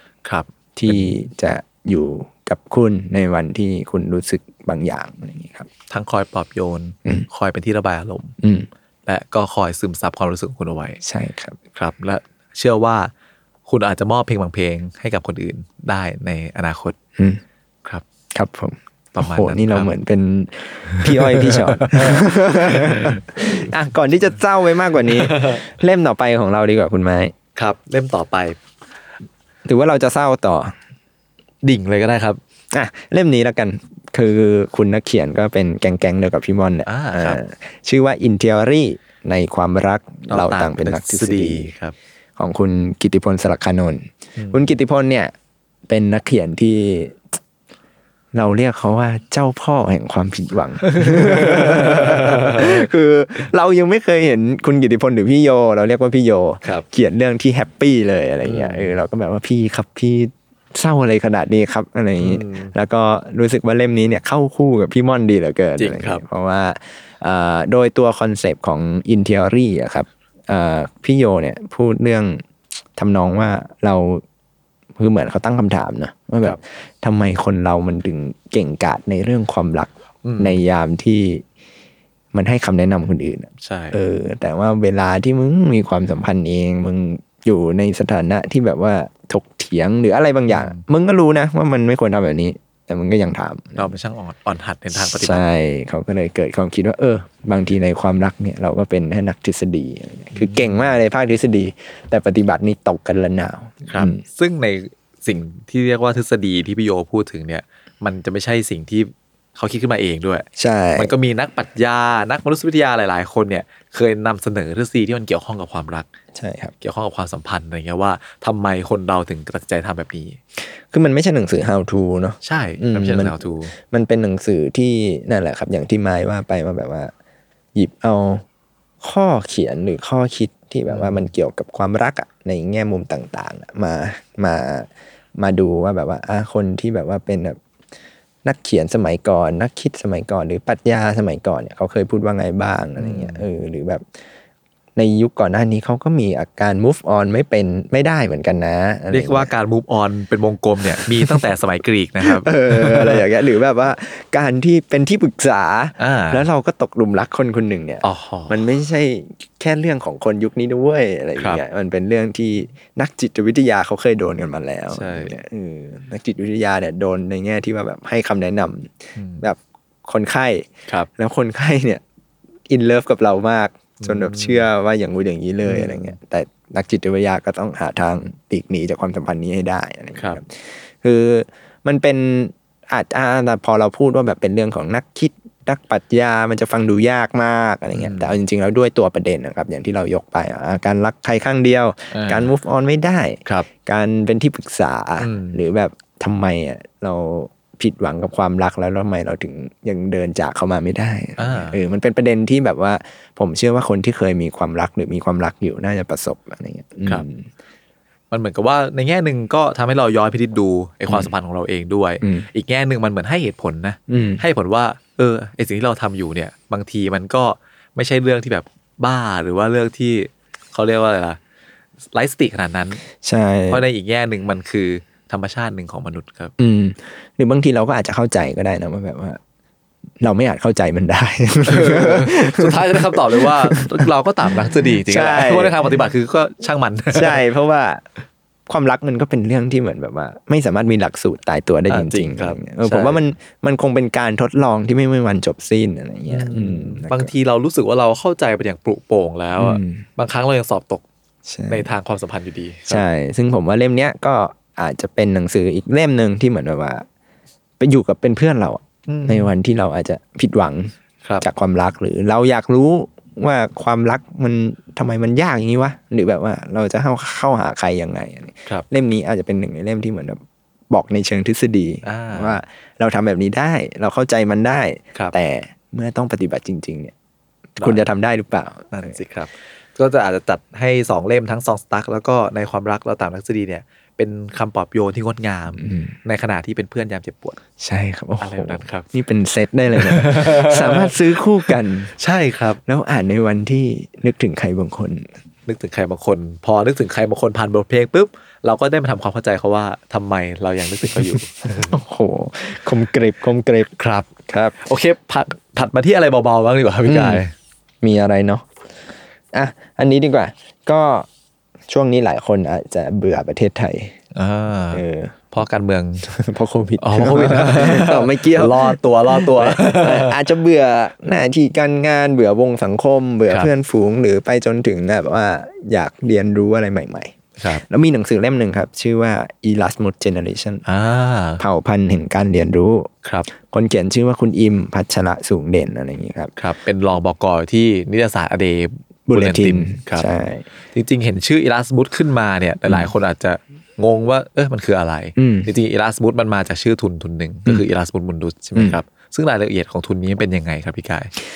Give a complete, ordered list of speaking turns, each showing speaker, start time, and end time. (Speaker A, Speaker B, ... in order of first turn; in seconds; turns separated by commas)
Speaker A: 0.2-1.1, Speaker B: 0.8-5.7, Speaker A: 5.9-8.3, Speaker B: 8.4-8.7, Speaker A: 9.1-11.0, Speaker B: 11.0-11.6, Speaker A: 11.7-13.1, Speaker A: 13.7-17.0, Speaker B: 18.3-27.3, Speaker A: 19.1-19.9, Speaker A: 21.1-23.2, Speaker A: 25.2-25.6, Speaker A: 27.6-28.6, Speaker B: 29.6-30.7, Speaker A: 31.6-32.4, Speaker B: 32.7-41.7, Speaker A: 36.9-37.4, Speaker A: 40.3-41.9, Speaker B: 42.4-45.3, Speaker B: 45.9-47.2, Speaker B: 48.3-72.4, Speaker A: 50.9-52.8, Speaker A: 58.4-59.0, Speaker A: 62.2-62.7, Speaker A: 65.8-66.2, Speaker B: 73.0-74.2, Speaker B: 75.0-81.4, Speaker A: 80.2-80.6, Speaker B: 82.3-93.9, Speaker A: 83.6-84.0, Speaker A: 90.5-90.8, Speaker A: 93.8-95.4, Speaker B: 94.9-104.2, Speaker A: 100.3-100.8, Speaker A: 103.8-116.1, Speaker B: 110.6-111.1, Speaker B: 116.3-116.7, Speaker A: 116.8-120.4, Speaker B: 120.9-127.1, Speaker A: 122.4-123.7, Speaker B: 127.7-128.4, Speaker B: 129.0-137.6, Speaker A: 130.9-131.3, Speaker B: 138.4-144.0, Speaker A: 143.0-143.4, Speaker B: 144.9-149.5, Speaker A: 149.1-153.2, Speaker B: 151.0-151.4, Speaker B: 152.2-172.0, Speaker A: 156.0-156.4, Speaker A: 158.0-158.6, Speaker A: 161.4-161.6, Speaker A: 164.9-165.3, Speaker A: 169.2-169.4, Speaker B: 172.7-207.4, Speaker A: 174.0-174.7, Speaker A: 175.6-176.1, Speaker A: 180.2-180.4, Speaker A: 187.9-188.3, Speaker A: 192.1-192.5, Speaker A: 195.2-195.6, Speaker A: 201.4-201.8, Speaker A: 208.3-221.4, Speaker B: 212.2-212.5, Speaker B: 214.1-214.4, Speaker A: 222.1-223.0, Speaker B: 223.2-223.8, Speaker A: 223.7-226.5, Speaker B: 226.6-229.4, Speaker B: 230.2-234.1, Speaker A: 231.7-237.4, Speaker B: 234.9-236.0, Speaker B: 237.1-238.0, Speaker B: 238.7-247.3, Speaker A: 241.9-243.2, Speaker A: 246.3-251.0, Speaker B: 249.6-250.0, Speaker B: 251.4-251.9, Speaker A: 251.7-253.0, Speaker B: 252.9-257.1, Speaker B: 257.8-277.1, Speaker A: 259.1-259.5, Speaker A: 272.0-272.6, Speaker B: 277.8-279.1, Speaker A: 277.8-278.0, Speaker A: 278.9-287.6, Speaker B: 285.8-286.1, Speaker B: 287.8-292.1, Speaker A: 288.4-289.1, Speaker A: 289.9-292.8, Speaker B: 292.9-295.3, Speaker A: 295.7-302.0, Speaker B: 301.7-303.9, Speaker A: 303.9-307.5, Speaker B: 304.5-304.7, Speaker B: 307.1-307.4, Speaker B: 308.0-308.7, Speaker B: 309.5-311.3, Speaker B: 311.9-314.1, Speaker A: 314.3-316.3, Speaker B: 314.9-315.3, Speaker B: 316.2-330.8, Speaker A: 317.0-320.4, Speaker A: 327.6-327.8, Speaker A: 330.9-331.6, Speaker B: 331.6-336.5, Speaker A: 336.6-340.3, Speaker B: 339.3-340.6, Speaker A: 340.9-351.3, Speaker B: 345.4-345.7, Speaker B: 348.8-349.0